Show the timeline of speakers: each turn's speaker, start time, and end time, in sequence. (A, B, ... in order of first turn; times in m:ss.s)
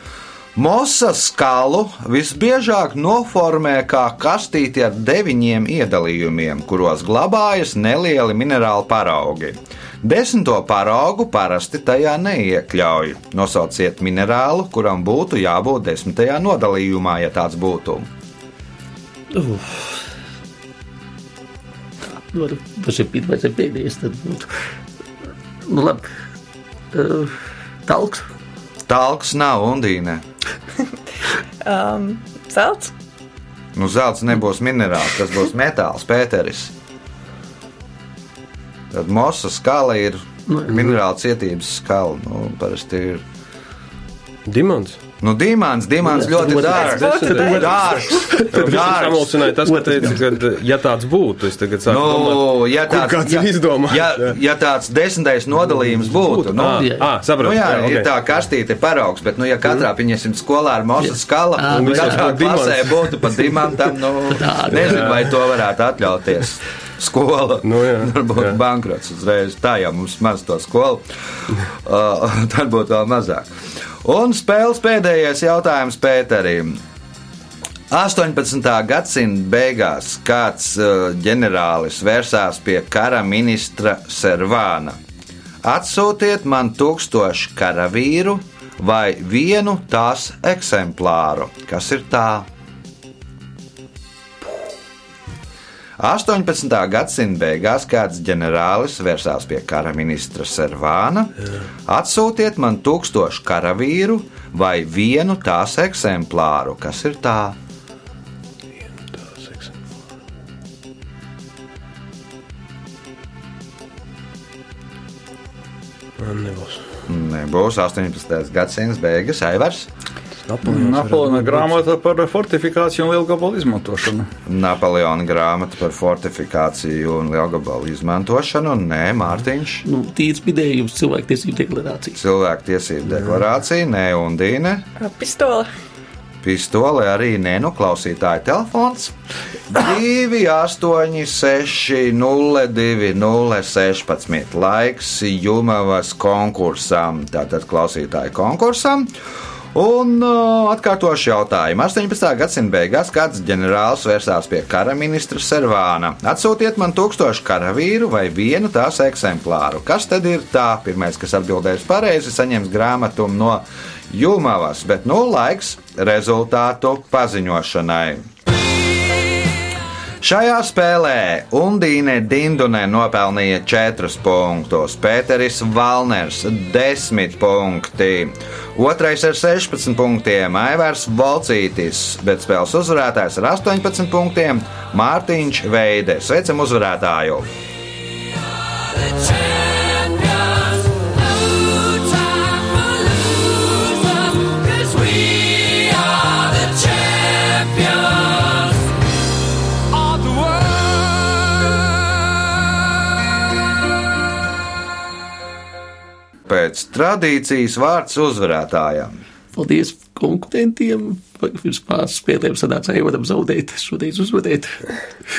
0:00.5-0:18.1 A
0:19.3-0:20.0 B
0:22.0-0:24.5 B
0:25.6-0:26.1 B
0:26.9-0:28.2 B
0:28.9-0:30.2 A
0:31.6-0:32.9 C
0:33.7-0:36.7 A
0:38.9-0:43.2 A
0:44.4-0:45.0 D
0:45.2-0:49.4 A
0:46.1-0:46.8 B
0:46.3-0:54.4 D
0:46.5-0:48.4 C
0:48.1-0:49.0 B
0:49.6-0:50.3 B
0:51.9-1:11.1 A
0:55.7-0:58.1 D
0:56.7-0:57.1 B
1:01.0-1:02.4 B
1:01.7-1:03.0 D
1:04.3-1:05.2 B
1:04.7-1:05.2 D
1:07.6-1:08.6 D
1:11.7-1:13.5 A
1:14.0-1:16.8 A
1:17.9-1:25.0 A
1:25.6-1:32.5 A
1:36.0-1:41.3 A
1:41.8-1:47.6 A
1:48.8-1:49.8 D
1:56.2-1:56.9 D
1:57.1-1:59.9 A
2:00.4-2:01.8 D
2:00.6-2:04.3 E
2:04.5-2:09.8 A
2:09.8-2:12.2 B
2:12.2-2:14.9 A
2:15.0-2:15.7 C
2:16.4-2:19.1 A
2:19.7-2:29.1 A
2:29.7-2:48.2 A
2:50.2-3:07.5 A
3:09.9-3:10.3 B
3:13.7-3:18.1 B
3:26.4-3:29.2 A
3:29.5-3:34.9 B